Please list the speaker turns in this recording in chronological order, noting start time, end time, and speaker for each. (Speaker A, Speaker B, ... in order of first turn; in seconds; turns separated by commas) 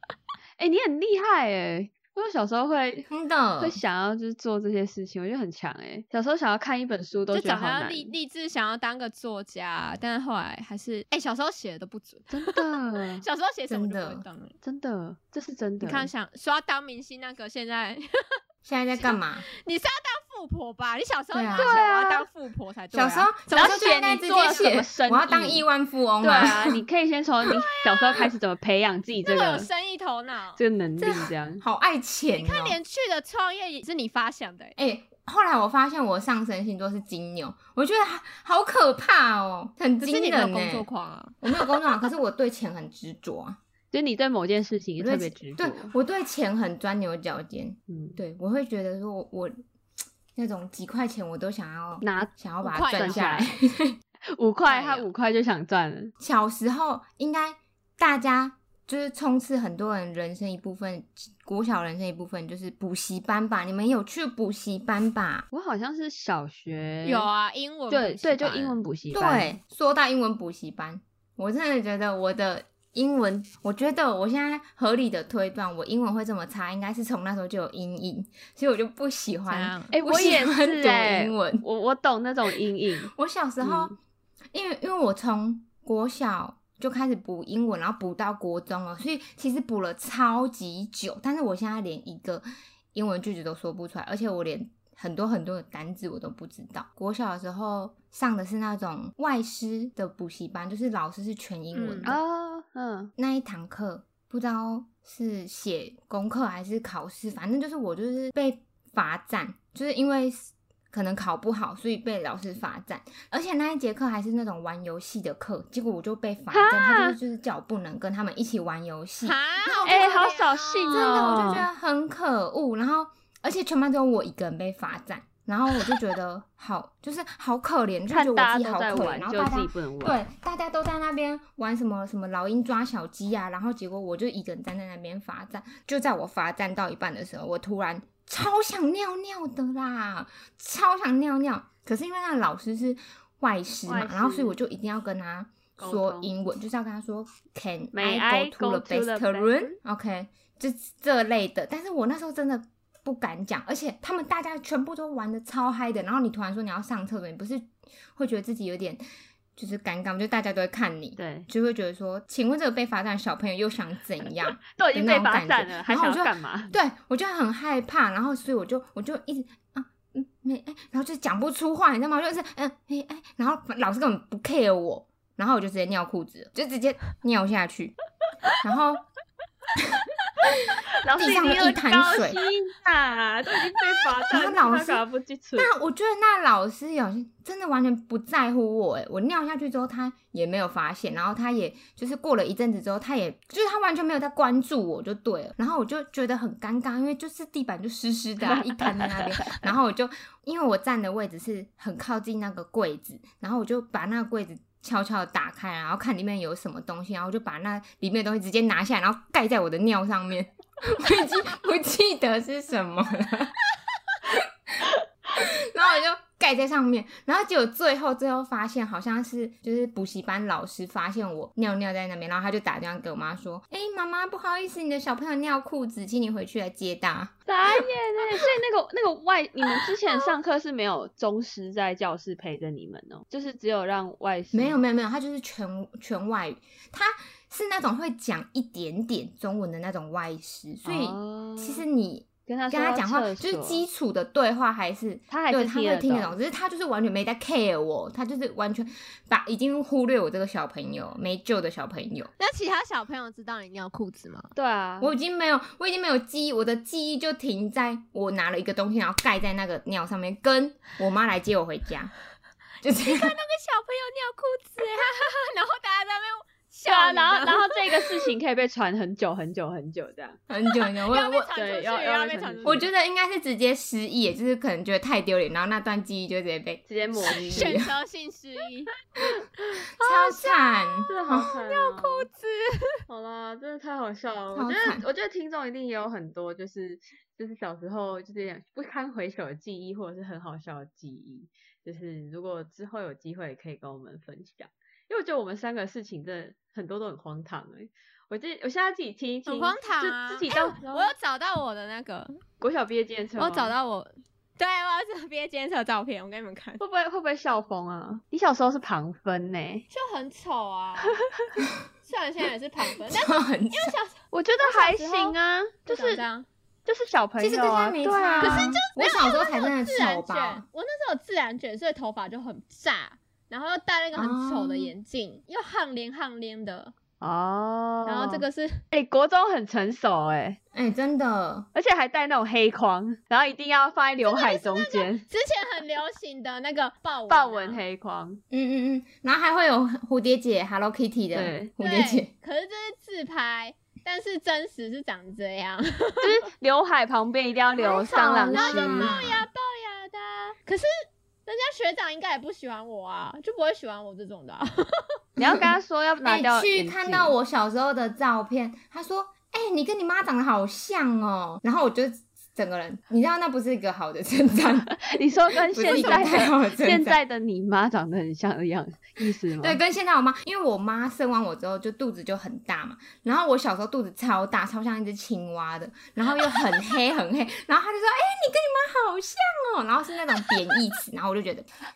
Speaker A: 0.6-8.1, Speaker B: 3.1-3.8, Speaker C: 7.3-12.6, Speaker A: 12.3-13.2, Speaker C: 13.2-14.6, Speaker B: 13.7-14.2, Speaker A: 14.6-16.1, Speaker C: 15.8-18.0, Speaker B: 18.6-19.4, Speaker C: 19.0-24.7, Speaker B: 21.3-21.7, Speaker A: 21.6-22.3, Speaker B: 22.9-26.8, Speaker A: 23.5-25.6, Speaker A: 26.2-29.7, Speaker C: 27.5-28.2, Speaker C: 29.3-31.3, Speaker A: 30.6-31.6, Speaker B: 31.6-32.8, Speaker C: 32.4-34.8, Speaker B: 34.8-40.9, Speaker C: 40.0-42.0, Speaker B: 41.4-43.6, Speaker A: 43.9-45.9, Speaker B: 45.0-49.5, Speaker A: 47.9-48.2, Speaker B: 50.4-54.0, Speaker A: 52.0-52.3, Speaker C: 52.6-53.4, Speaker A: 52.9-53.5, Speaker A: 54.4-56.1, Speaker C: 54.7-55.1, Speaker B: 56.2-65.5, Speaker A: 65.5-67.3, Speaker C: 67.0-68.8, Speaker A: 67.9-69.6, Speaker B: 69.1-81.6, Speaker C: 79.5-79.9, Speaker A: 79.9-84.0, Speaker B: 83.1-83.9, Speaker B: 84.5-102.2, Speaker C: 101.7-102.2, Speaker A: 102.0-103.1, Speaker B: 103.2-120.0, Speaker A: 116.5-117.2, Speaker C: 119.2-121.5, Speaker A: 119.8-121.7, Speaker B: 120.9-159.0, Speaker A: 128.1-130.2, Speaker A: 143.9-144.6, Speaker A: 145.8-146.3, Speaker A: 147.9-149.8, Speaker B: 159.6-178.0, Speaker A: 161.2-161.5, Speaker A: 164.8-166.7, Speaker B: 178.6-179.0, Speaker B: 179.8-180.5, Speaker A: 181.0-185.7, Speaker B: 181.2-182.4, Speaker B: 184.3-185.1, Speaker B: 185.6-213.6, Speaker A: 198.4-199.7, Speaker B: 215.4-228.6, Speaker A: 227.5-234.8, Speaker B: 234.5-252.3, Speaker A: 240.8-241.8, Speaker A: 242.5-243.8, Speaker A: 245.3-246.4, Speaker C: 252.4-254.5, Speaker A: 254.6-255.1, Speaker B: 255.0-262.1, Speaker B: 262.8-263.4, Speaker C: 262.9-268.3, Speaker A: 266.9-270.4, Speaker B: 270.5-271.5, Speaker C: 271.1-272.9, Speaker A: 271.5-272.9, Speaker B: 272.7-277.9, Speaker A: 276.9-277.8, Speaker C: 277.2-278.9, Speaker C: 279.7-283.0, Speaker B: 280.0-281.5, Speaker A: 281.1-282.3, Speaker A: 283.1-301.1, Speaker B: 284.5-285.1, Speaker C: 299.5-302.4, Speaker A: 302.6-303.8, Speaker C: 303.4-306.8, Speaker A: 306.8-309.9, Speaker C: 309.9-311.2, Speaker A: 311.3-311.6, Speaker C: 312.0-315.4, Speaker B: 313.1-313.9, Speaker A: 314.3-316.2, Speaker C: 315.9-316.5, Speaker A: 316.9-318.7, Speaker B: 317.4-320.7, Speaker C: 318.4-326.9, Speaker B: 324.2-324.9, Speaker A: 327.2-330.6, Speaker C: 328.1-328.8, Speaker B: 330.7-331.7, Speaker A: 331.8-335.2, Speaker C: 334.2-337.8, Speaker A: 337.3-338.4, Speaker B: 338.5-342.3, Speaker A: 341.3-341.7, Speaker C: 341.8-346.3, Speaker A: 346.2-349.3, Speaker C: 347.8-350.9, Speaker B: 347.9-349.4, Speaker C: 351.5-355.2, Speaker A: 355.4-357.3, Speaker B: 356.2-365.0, Speaker A: 365.0-369.8, Speaker B: 365.7-367.2, Speaker C: 365.8-366.5, Speaker B: 369.6-381.7